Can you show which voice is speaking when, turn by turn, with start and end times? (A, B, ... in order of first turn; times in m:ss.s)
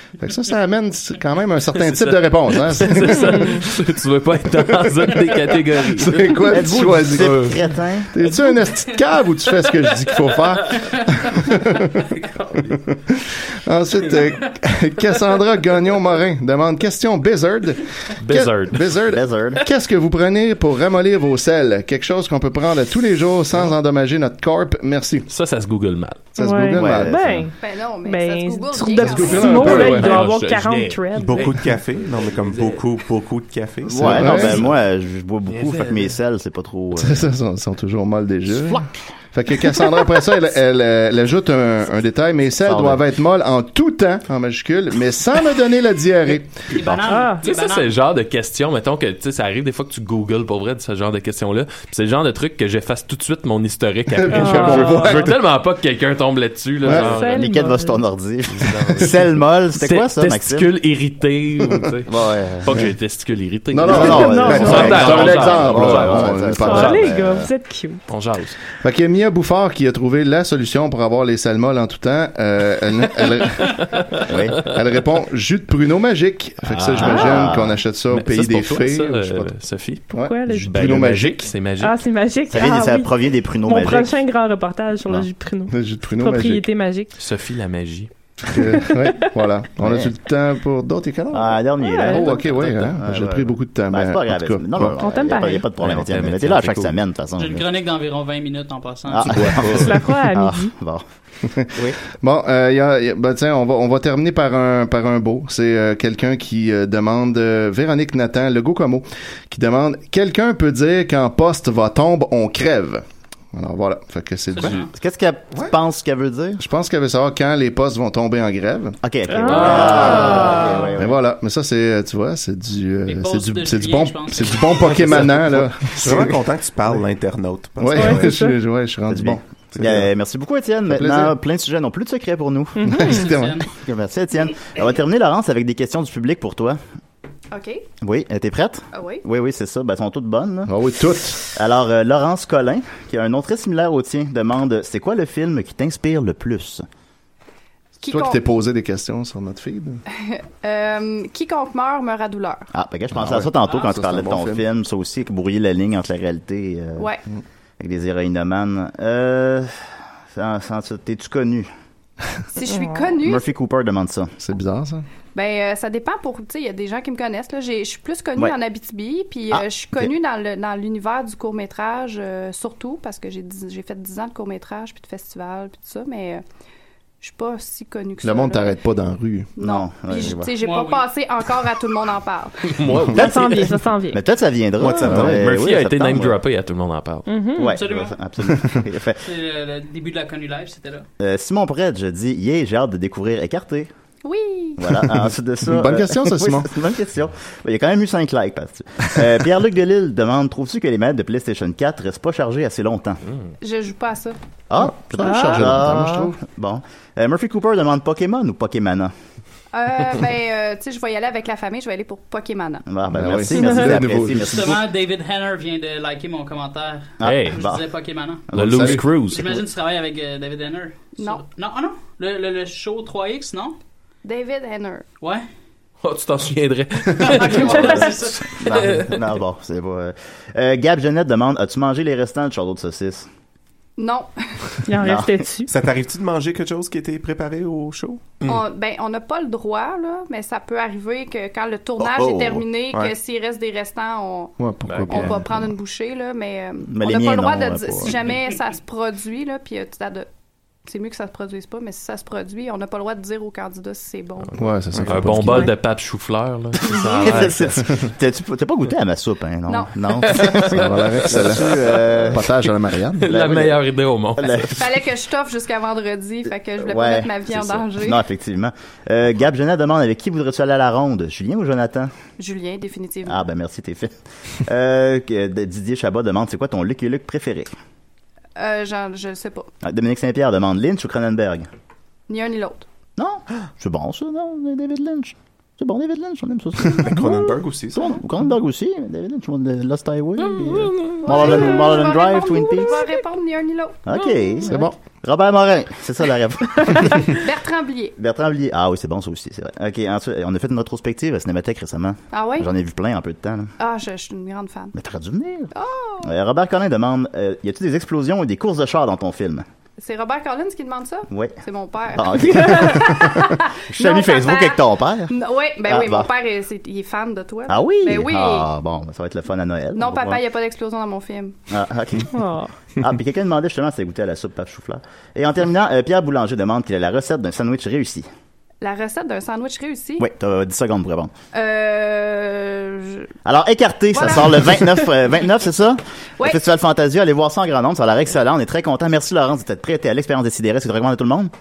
0:00.2-0:03.6 A
0:01.8-0:07.6 B
0:03.2-0:03.6 C
0:04.6-0:07.6 A
0:06.5-0:08.1 D
0:08.1-0:25.3 A
0:18.2-0:19.0 B
0:19.1-0:19.6 D
0:25.3-0:26.3 B
0:26.3-0:27.4 A
0:26.3-0:31.5 C
0:26.8-0:27.4 D
0:27.6-0:29.8 E
0:29.0-0:30.2 A
0:29.5-0:32.8 B
0:31.2-0:34.7 F
0:33.9-0:37.3 D
0:34.0-0:34.7 A
0:34.1-0:34.5 B
0:35.6-0:36.1 B
0:36.9-0:46.5 A
0:38.6-0:39.0 D
0:42.6-0:43.0 D
0:46.7-0:47.9 G
0:47.0-0:47.4 C
0:47.4-0:57.6 B
0:54.1-0:55.4 A
0:54.3-0:55.3 C
0:56.8-0:57.1 A
0:56.9-0:58.0 C
0:57.0-1:00.8 D
0:58.5-1:07.4 B
1:02.1-1:02.8 D
1:03.7-1:07.1 A
1:03.8-1:07.4 D
1:04.1-1:05.2 C
1:06.5-1:08.0 C
1:08.1-1:08.6 B
1:08.8-1:13.8 A
1:13.4-1:14.6 B
1:14.3-1:14.6 D
1:14.6-1:19.5 A
1:16.6-1:17.5 B
1:16.9-1:17.8 D
1:17.1-1:17.4 C
1:18.1-1:20.0 B
1:20.1-1:20.7 C
1:20.1-1:21.5 A
1:20.6-1:22.0 B
1:20.7-1:21.2 D
1:21.8-1:27.2 C
1:22.5-1:24.1 D
1:25.7-1:26.6 A
1:27.2-1:28.1 B
1:28.5-1:35.0 A
1:28.6-1:29.3 C
1:29.8-1:30.1 D
1:31.3-1:37.7 D
1:31.8-1:32.5 C
1:35.0-1:35.7 C
1:35.7-1:37.0 B
1:37.4-1:39.5 G
1:39.1-1:41.0 D
1:39.2-1:40.0 B
1:39.7-1:40.7 C
1:41.4-1:54.9 A
1:54.5-1:54.9 G
1:54.9-1:56.6 D
1:56.6-2:00.4 A
1:59.0-2:01.2 D
1:59.3-2:00.9 C
1:59.5-2:00.6 B
2:01.0-2:06.4 A
2:03.1-2:05.1 G
2:05.0-2:08.3 F
2:07.8-2:10.1 A
2:07.9-2:08.6 C
2:09.1-2:13.0 D
2:10.9-2:11.3 A
2:12.8-2:13.3 C
2:12.8-2:13.6 A
2:13.2-2:13.7 G
2:13.7-2:16.8 D
2:17.5-2:17.8 E
2:18.0-2:20.7 D
2:18.9-2:19.2 E
2:20.7-2:21.4 A
2:21.5-2:26.8 D
2:28.0-2:28.4 E
2:28.1-2:30.0 A
2:30.1-2:32.7 E
2:32.7-2:37.1 D
2:33.1-2:34.6 A
2:37.0-2:37.2 E
2:37.8-2:39.7 D
2:40.3-2:41.7 D
2:42.5-2:43.5 E
2:42.7-2:43.0 C
2:43.2-2:44.3 D
2:44.4-2:45.0 A
2:45.3-2:56.4 E
2:49.5-2:50.1 D
2:57.2-2:58.8 E
2:58.2-2:59.5 A
2:59.6-3:02.5 E
2:59.6-3:00.5 D
3:00.6-3:01.1 G
3:02.6-3:03.5 B
3:03.1-3:04.2 C
3:03.1-3:06.4 D
3:04.8-3:05.4 F
3:05.1-3:05.4 A
3:05.1-3:07.3 B
3:07.2-3:07.8 C
3:07.6-3:09.2 D
3:07.6-3:08.2 G
3:08.4-3:08.8 A
3:09.2-3:11.0 G
3:11.2-3:13.9 D
3:14.2-3:14.9 E
3:14.8-3:23.2 D
3:15.6-3:16.7 A
3:23.6-3:24.4 E
3:24.7-3:29.1 D
3:24.7-3:26.4 A
3:25.2-3:25.6 C
3:29.7-3:32.8 E
3:32.9-3:34.8 D
3:33.1-3:34.8 A
3:33.5-3:34.0 C
3:34.5-3:38.5 G
3:37.2-3:37.9 D
3:37.2-3:37.6 B
3:38.5-3:39.1 D
3:38.5-3:39.6 B
3:38.6-3:39.0 A
3:39.3-3:43.8 G
3:41.2-3:41.4 E
3:44.2-3:45.0 E
3:45.2-3:45.4 G
3:46.0-3:49.2 B
3:47.2-3:48.4 G
3:47.4-3:53.3 D
3:47.6-3:48.2 C
3:54.0-3:54.3 E
3:54.8-3:55.7 C
3:54.9-3:55.4 D
3:55.7-3:58.4 F
3:58.4-4:10.3 E
4:02.0-4:02.6 D
4:04.6-4:05.7 A
4:04.9-4:05.3 B
4:06.9-4:08.2 D
4:10.8-4:14.5 E
4:14.6-4:15.7 A
4:15.0-4:17.9 B
4:16.8-4:22.5 D
4:19.7-4:20.4 E
4:20.7-4:23.4 A
4:21.4-4:22.2 B
4:23.2-4:24.7 B
4:23.3-4:23.8 D
4:24.4-4:24.8 D
4:24.6-4:28.2 E
4:26.8-4:32.1 D
4:32.4-4:33.4 E
4:33.2-4:37.7 D
4:38.6-4:39.7 E
4:39.8-4:41.7 D
4:42.3-4:42.8 E
4:43.2-4:47.4 D
4:46.9-4:48.2 F
4:47.9-4:53.0 D
4:50.8-4:51.2 B
4:51.2-4:54.0 E
4:54.0-4:57.4 D
4:54.6-4:54.9 A
4:57.3-4:58.1 E
4:58.2-5:03.7 D
5:02.3-5:02.7 E
5:03.8-5:04.9 E
5:04.9-5:05.7 D
5:05.7-5:06.3 E
5:06.2-5:09.6 D
5:10.0-5:18.7 E
5:11.3-5:11.6 D
5:12.1-5:13.3 D
5:12.6-5:13.1 C
5:13.9-5:15.3 D
5:15.8-5:16.3 D
5:17.7-5:20.4 D
5:19.9-5:21.6 E
5:21.7-5:22.4 D
5:22.3-5:22.7 C
5:23.0-5:28.3 D
5:28.8-5:30.3 E
5:30.2-5:31.3 D
5:31.5-5:33.3 E
5:33.4-5:41.5 D
5:34.1-5:35.1 E